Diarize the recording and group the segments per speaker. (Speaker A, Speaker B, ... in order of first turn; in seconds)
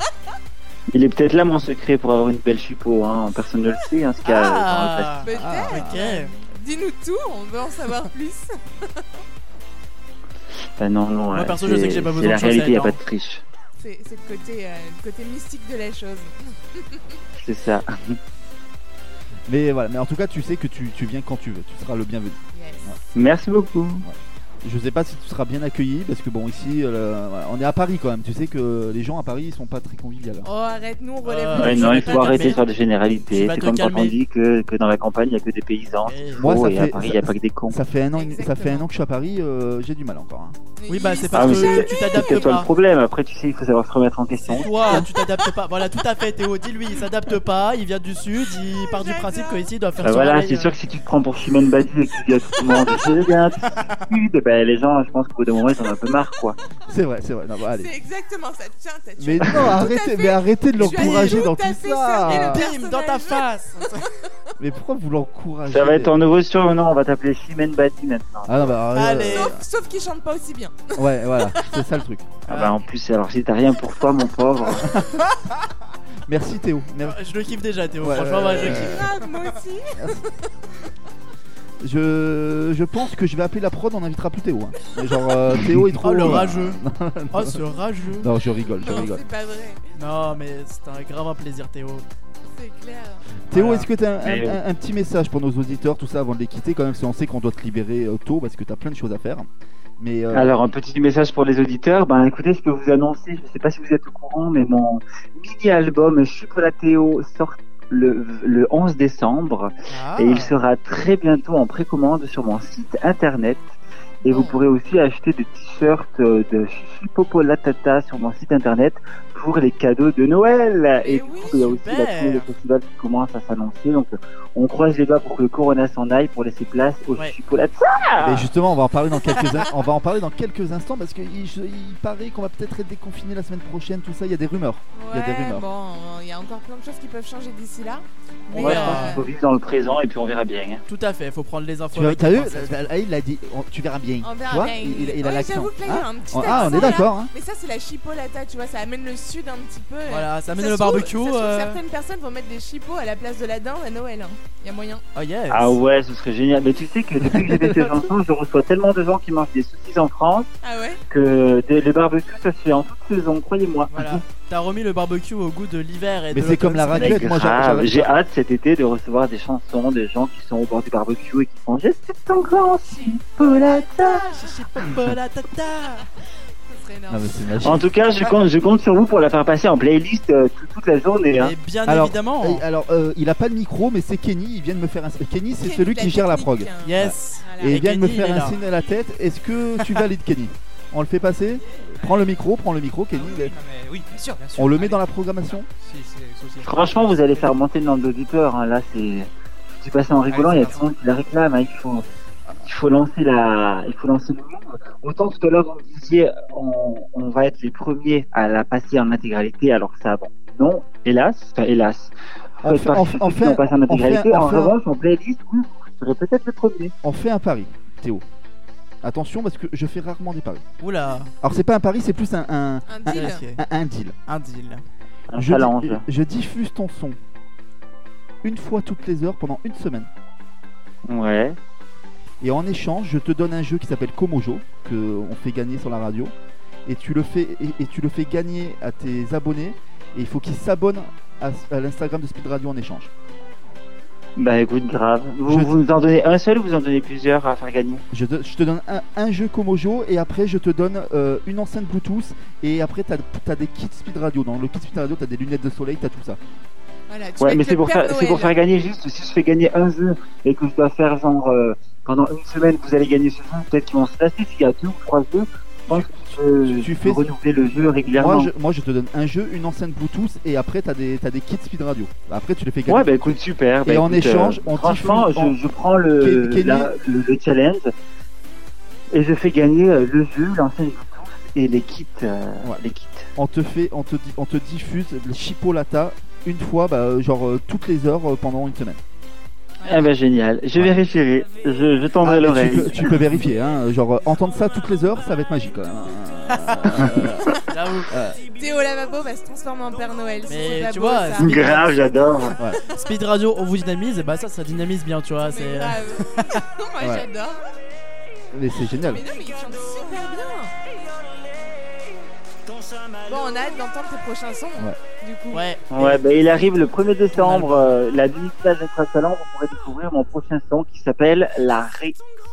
Speaker A: 0.9-5.2, 10.8-13.4, 17.4-18.1, 23.1-24.1, 31.5-37.8, 41.3-45.0, 50.0-56.5, 65.7-68.8, 72.5-74.8, 94.2-94.6, 100.3-113.7, 114.2-128.5, 138.5-140.8, 155.5-160.5, 161.1-163.9, 166.9-174.3, 177.6-181.5, 196.6-199.3, 199.8-202.0, 202.6-216.9, 225.3-226.0, 231.1-231.6, 244.4-248.0, 257.4-268.5, 272.9-277.9, 279.1-283.3, 289.8-293.2, 301.4-302.6, 315.9-322.1
Speaker B: 4.2-6.3, 11.3-13.0, 31.2-32.6, 33.3-34.1, 36.0-36.5, 40.9-42.7, 44.4-50.7, 53.6-54.0, 60.8-61.5, 62.2-64.1, 68.9-69.5, 72.5-72.8, 77.0-79.1, 85.7-86.8, 87.3-88.3, 90.0-92.0, 93.5-93.9, 109.9-110.5, 121.5-122.5, 138.5-139.2, 140.9-142.9, 146.4-147.1, 150.1-151.8, 155.1-155.8, 163.9-167.2, 174.3-176.0, 181.4-182.6, 186.8-188.6, 189.8-190.1, 220.8-221.3, 223.1-223.6, 224.3-224.8, 296.5-297.0, 297.6-298.1, 300.5-301.6, 302.9-306.6, 315.5-316.2, 317.3-318.0
Speaker C: 5.2-9.0, 13.8-17.0, 22.5-22.9, 30.4-32.6, 38.1-38.9, 40.8-42.6, 48.8-49.7, 57.8-64.1, 69.3-71.7, 78.6-80.3, 88.7-89.9, 92.5-93.2, 114.2-114.6, 121.0-121.7, 134.9-139.3, 144.2-155.0, 160.6-161.0, 173.4-174.4, 176.7-177.3, 185.6-187.8, 222.9-223.4, 257.1-258.5, 289.8-290.1, 292.9-293.2, 298.5-302.6, 305.4-307.6, 309.0-310.7, 313.2-315.8
Speaker D: 5.3-6.0, 19.5-23.0, 24.0-30.5, 36.4-40.6, 56.9-57.9, 59.2-62.7, 64.6-66.2, 68.5-69.6, 71.0-72.3, 74.8-75.2, 76.3-77.2, 78.0-79.1, 81.8-87.7, 88.2-89.2, 93.5-99.5, 100.0-100.5, 128.2-135.7, 141.9-147.3, 157.3-158.0, 166.3-168.1, 177.1-177.8, 181.8-193.5, 194.5-195.7, 212.6-214.7, 217.0-218.2, 219.0-220.6, 221.4-224.2, 225.4-227.2, 228.4-230.1, 232.4-236.3, 236.8-243.1, 245.5-245.7, 248.1-256.4, 266.8-267.2, 268.2-275.6, 276.2-276.9, 283.4-289.0, 292.2-298.4, 307.0-307.2, 308.5-309.2
Speaker E: 192.0-192.2, 193.1-197.6, 200.3-200.9